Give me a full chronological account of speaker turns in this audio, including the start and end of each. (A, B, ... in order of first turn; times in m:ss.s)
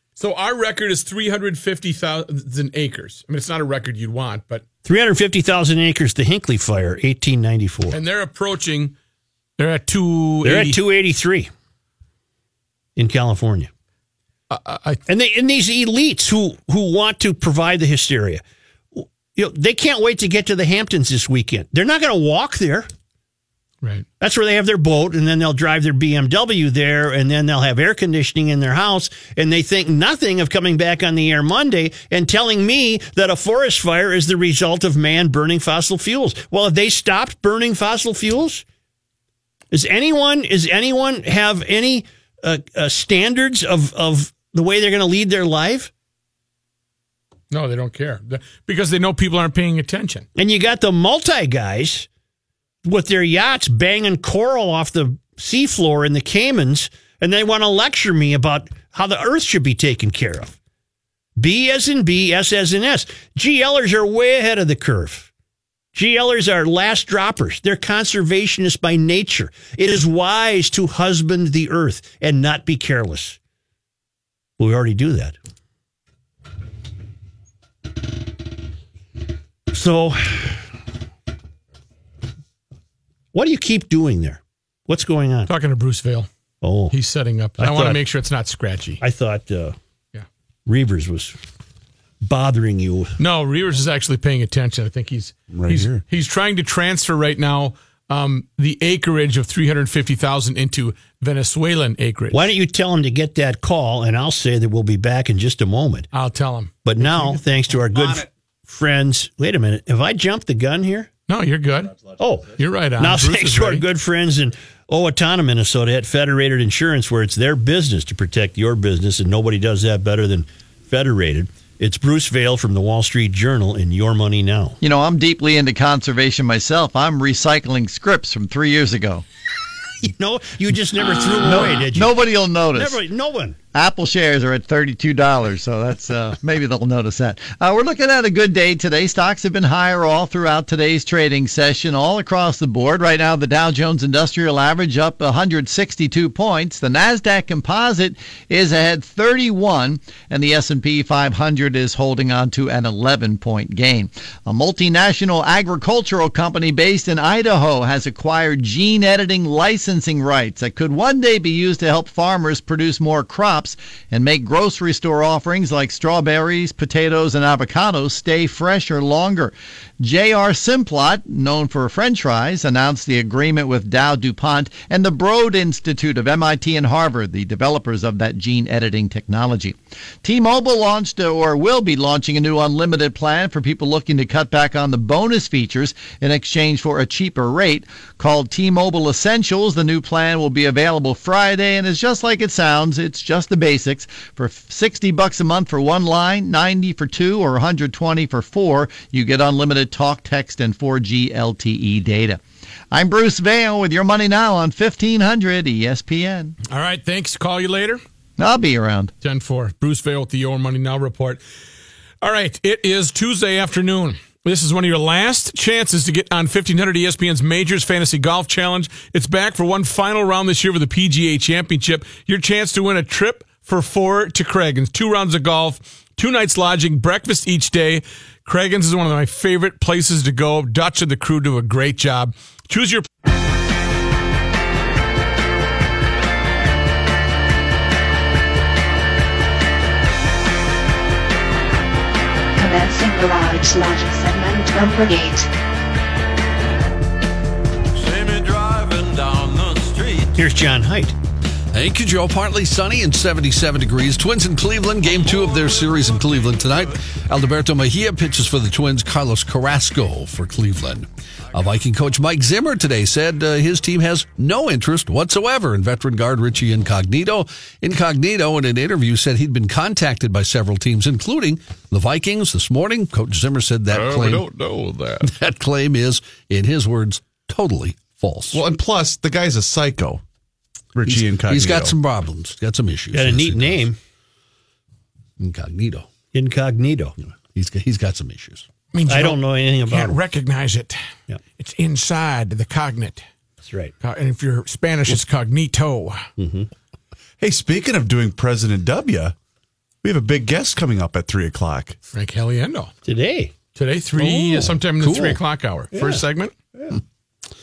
0:00.2-0:04.6 A
0:04.8-0:08.0 B
0:07.9-0:09.0 A
0:09.6-0:10.8 A
0:10.4-0:11.5 B
0:13.0-0:13.7 B
0:14.5-0:15.0 A
0:15.1-0:18.4 B
0:19.0-0:22.9 B
0:24.2-0:38.6 B
0:39.7-0:45.9 B
0:47.5-0:50.3 A
0:50.4-0:52.1 B
0:52.8-1:00.6 B
1:01.4-1:05.3 B
1:05.9-1:13.4 B
1:14.6-1:15.4 B
1:19.7-1:20.6 B
1:23.3-1:25.5 B
1:25.5-1:26.3 A
1:26.6-1:27.0 B
1:26.9-1:29.0 A
1:27.6-1:28.0 B
1:29.0-1:29.8 B
1:30.7-1:31.4 B
1:32.2-1:33.2 B
1:33.2-1:42.5 A
1:35.5-1:36.0 C
1:42.3-1:46.1 B
1:46.1-1:47.4 A
1:46.8-1:51.1 B
1:51.3-1:52.0 A
1:52.2-2:04.8 B
1:52.6-1:53.8 A
2:04.8-2:09.2 D
2:10.0-2:12.2 B
2:11.5-2:13.0 D
2:12.7-2:13.6 B
2:13.7-3:22.4 D
3:22.9-3:26.6 D
3:26.7-3:28.0 A
3:28.4-3:29.1 D
3:29.2-3:31.4 A
3:32.2-3:53.1 A
4:02.6-4:05.5 E
4:08.0-4:10.2 F
4:10.4-4:11.2 B
4:11.7-4:34.5 G
4:33.9-4:35.3 C
4:35.2-4:38.6 G
4:38.5-4:40.2 C
4:41.0-4:41.9 C
4:41.0-4:43.9 G
4:43.1-4:44.0 B
4:45.4-4:46.1 G
4:46.3-4:47.2 B
4:47.5-4:48.7 G
4:48.9-4:51.0 A
4:49.1-4:50.2 B
4:51.6-4:53.3 A
4:53.6-4:53.9 B
4:54.0-4:56.3 A
4:56.4-4:56.7 B
4:57.4-4:59.4 C
5:00.0-5:02.0 C
5:02.1-5:02.9 A
5:03.1-5:03.5 B
5:03.8-5:06.5 A
5:04.2-5:05.4 G
5:05.9-5:06.2 B